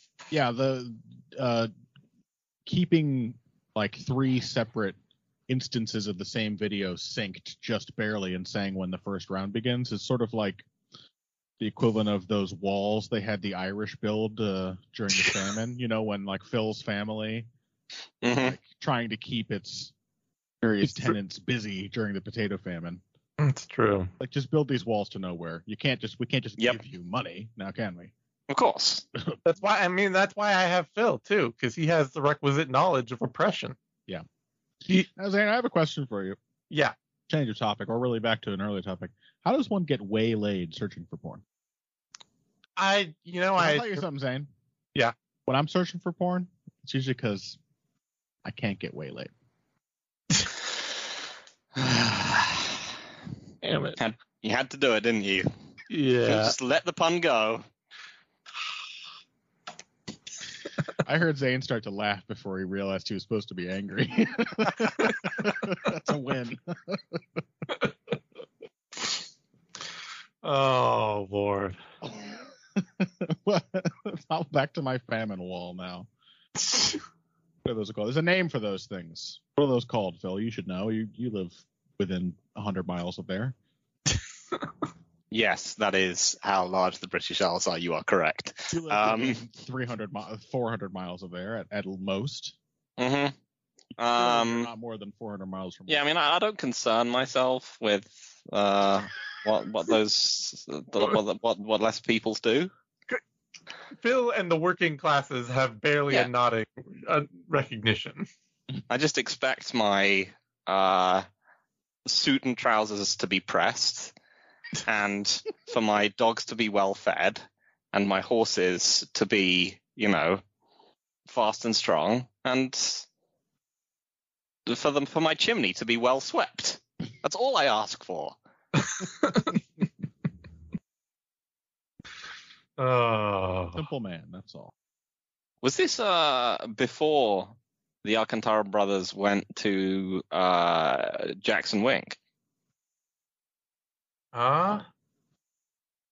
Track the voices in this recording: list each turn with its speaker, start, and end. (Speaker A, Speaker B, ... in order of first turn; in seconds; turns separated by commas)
Speaker A: 0.3-1.7, Speaker A: 2.7-5.0, Speaker A: 5.5-10.7, Speaker A: 11.6-17.5, Speaker B: 18.2-18.6, Speaker A: 18.2-19.9, Speaker A: 20.6-23.0, Speaker C: 20.9-21.1, Speaker C: 23.4-24.1, Speaker A: 24.2-28.1, Speaker B: 28.5-29.0, Speaker C: 29.4-33.8, Speaker A: 35.1-36.4, Speaker A: 37.3-41.4, Speaker C: 42.8-44.0, Speaker A: 43.6-44.5, Speaker A: 45.5-47.6, Speaker A: 48.4-49.3, Speaker B: 51.8-52.7, Speaker C: 53.6-54.0, Speaker B: 54.0-55.5, Speaker C: 55.9-56.5, Speaker B: 56.2-57.6, Speaker A: 61.0-67.2, Speaker C: 70.4-71.8, Speaker A: 72.0-76.1, Speaker C: 76.7-76.9, Speaker A: 77.6-83.5, Speaker B: 85.3-89.4, Speaker A: 88.7-92.5, Speaker B: 93.0-93.3, Speaker B: 94.0-94.7, Speaker A: 94.1-96.0, Speaker B: 95.9-102.7, Speaker C: 104.0-108.3, Speaker B: 108.9-111.2, Speaker B: 112.0-114.1, Speaker B: 114.8-120.4, Speaker B: 121.3-123.0, Speaker B: 124.7-128.4, Speaker C: 129.0-129.5, Speaker C: 132.8-133.8, Speaker A: 133.7-134.7, Speaker B: 135.6-142.2, Speaker C: 144.3-144.8